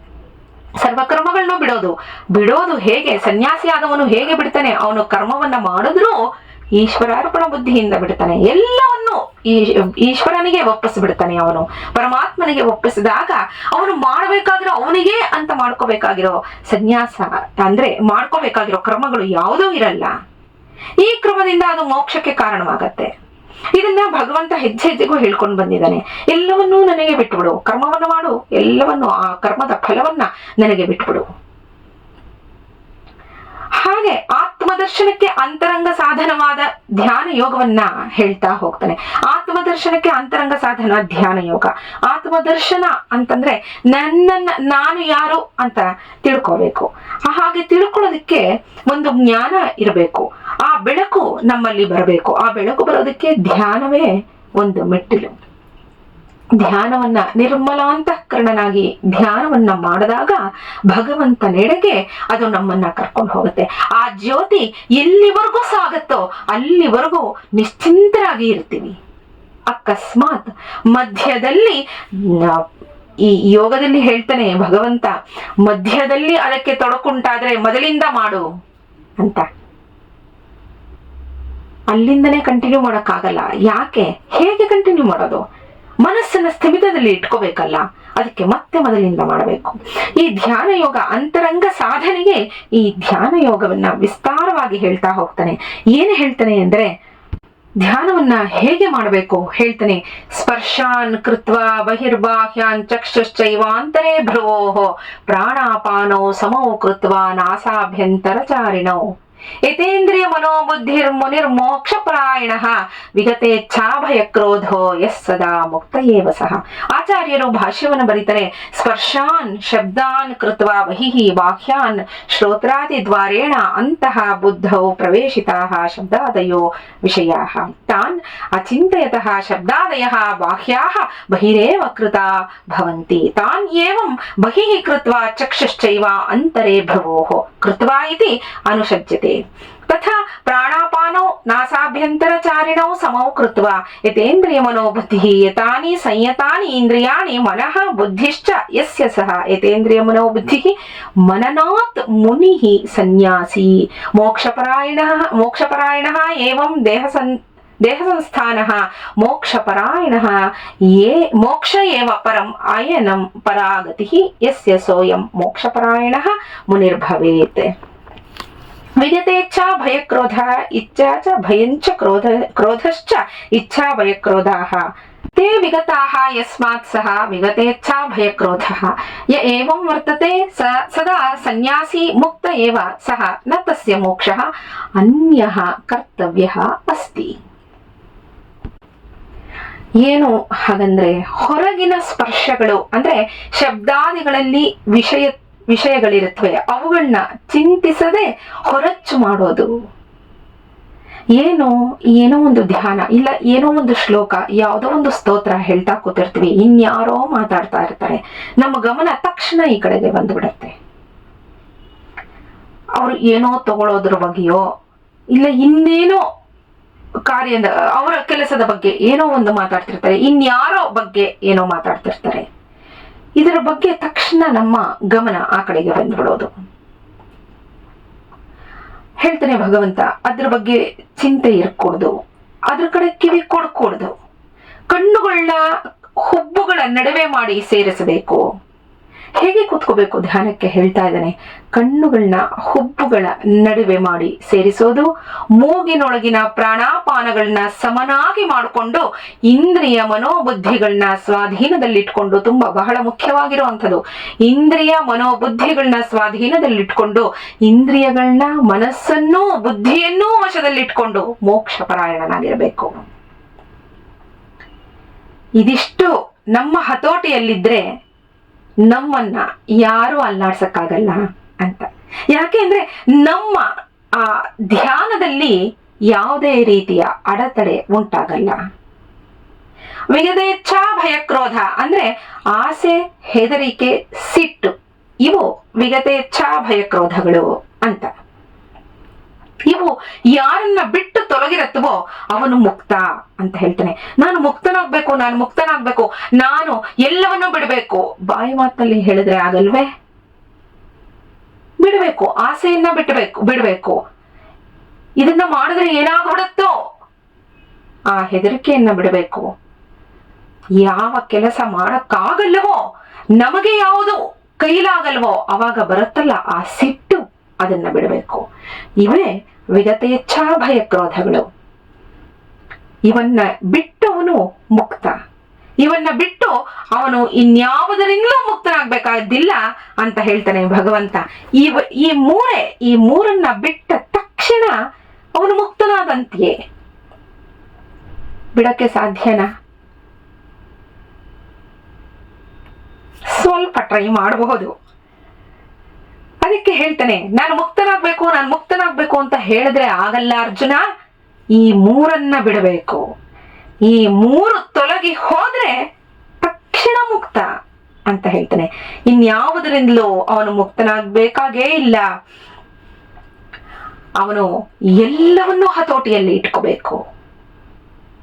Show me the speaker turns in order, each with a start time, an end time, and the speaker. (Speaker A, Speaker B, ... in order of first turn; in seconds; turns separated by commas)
Speaker A: 0.8-6.2, Speaker A: 6.8-20.1, Speaker A: 21.0-23.1, Speaker A: 23.8-31.2, Speaker A: 33.8-55.3, Speaker A: 56.6-69.0, Speaker A: 69.7-72.6, Speaker A: 73.3-78.4, Speaker A: 79.2-79.4, Speaker A: 81.9-85.4, Speaker A: 86.0-96.9, Speaker A: 97.8-109.0, Speaker A: 109.7-160.4, Speaker A: 160.9-167.7, Speaker A: 169.0-184.4, Speaker A: 185.0-187.3, Speaker A: 190.0-199.7, Speaker A: 201.4-210.7, Speaker A: 213.0-214.6, Speaker A: 215.3-216.2, Speaker A: 217.3-222.4, Speaker A: 223.4-226.5, Speaker A: 229.2-232.2, Speaker A: 232.7-234.1, Speaker A: 234.9-235.6, Speaker A: 236.2-238.4, Speaker A: 239.4-245.1, Speaker A: 245.6-263.1, Speaker A: 265.6-267.8, Speaker A: 268.9-275.6, Speaker A: 276.1-278.6, Speaker A: 280.1-284.7, Speaker A: 285.2-288.1, Speaker A: 289.7-299.9, Speaker A: 301.8-304.0, Speaker A: 305.2-306.7, Speaker A: 308.1-309.5, Speaker A: 310.8-312.8, Speaker A: 313.4-318.4, Speaker A: 319.0-321.5, Speaker A: 323.1-325.1, Speaker A: 325.8-334.7, Speaker A: 335.4-336.6, Speaker A: 338.5-339.5, Speaker A: 343.3-344.7, Speaker A: 346.4-350.8, Speaker A: 351.6-353.0, Speaker A: 353.9-355.8, Speaker A: 356.4-357.5, Speaker A: 358.1-362.1, Speaker A: 364.2-367.0